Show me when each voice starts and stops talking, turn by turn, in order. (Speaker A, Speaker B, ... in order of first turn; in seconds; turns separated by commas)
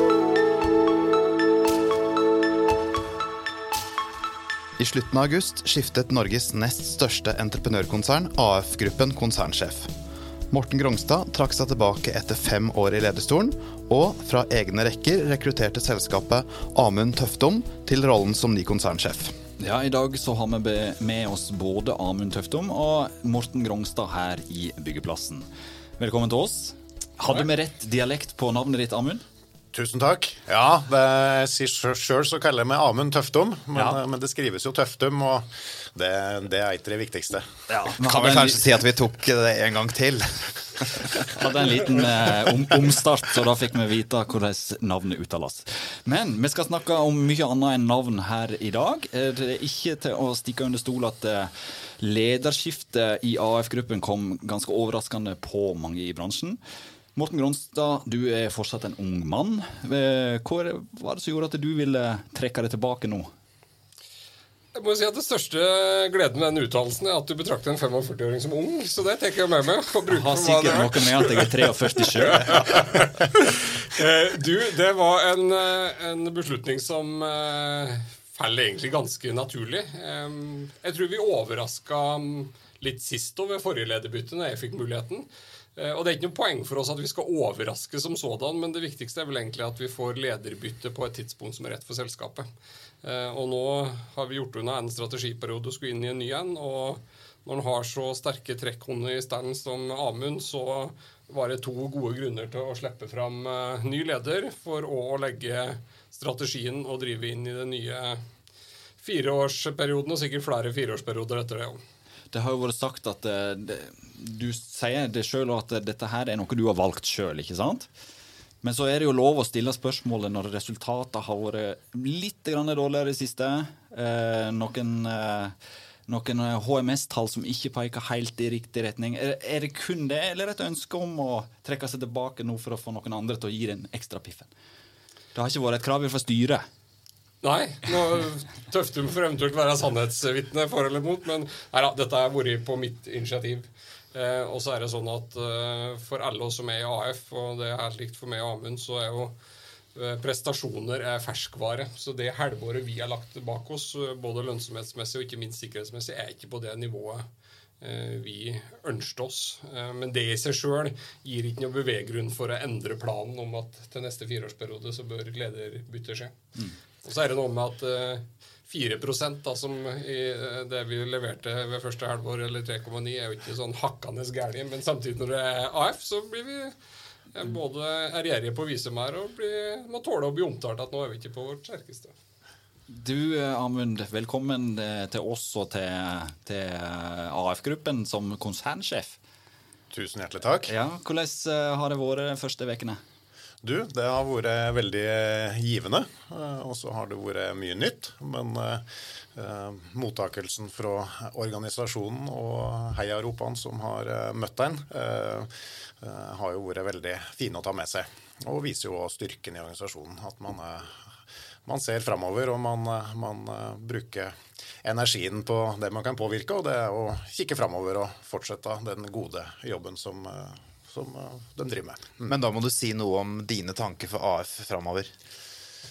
Speaker A: 4.8-9.9, Speaker A: 10.5-19.4, Speaker B: 19.6-25.5, Speaker B: 26.0-29.2, Speaker C: 29.7-37.5, Speaker B: 37.7-38.6, Speaker A: 38.0-41.3, Speaker B: 41.3-56.6, Speaker B: 57.1-63.3, Speaker D: 64.7-92.5, Speaker B: 70.1-72.6, Speaker D: 93.0-108.2, Speaker D: 109.0-111.8, Speaker B: 112.3-117.9, Speaker B: 118.6-125.6, Speaker B: 126.1-134.5, Speaker B: 135.3-136.7, Speaker D: 137.4-149.4, Speaker D: 149.9-157.3, Speaker D: 157.8-166.4, Speaker D: 167.0-176.8, Speaker D: 177.3-182.1, Speaker B: 182.9-189.2, Speaker C: 189.9-190.7, Speaker B: 190.7-193.0, Speaker C: 193.6-211.1, Speaker C: 211.7-222.3, Speaker A: 222.3-225.1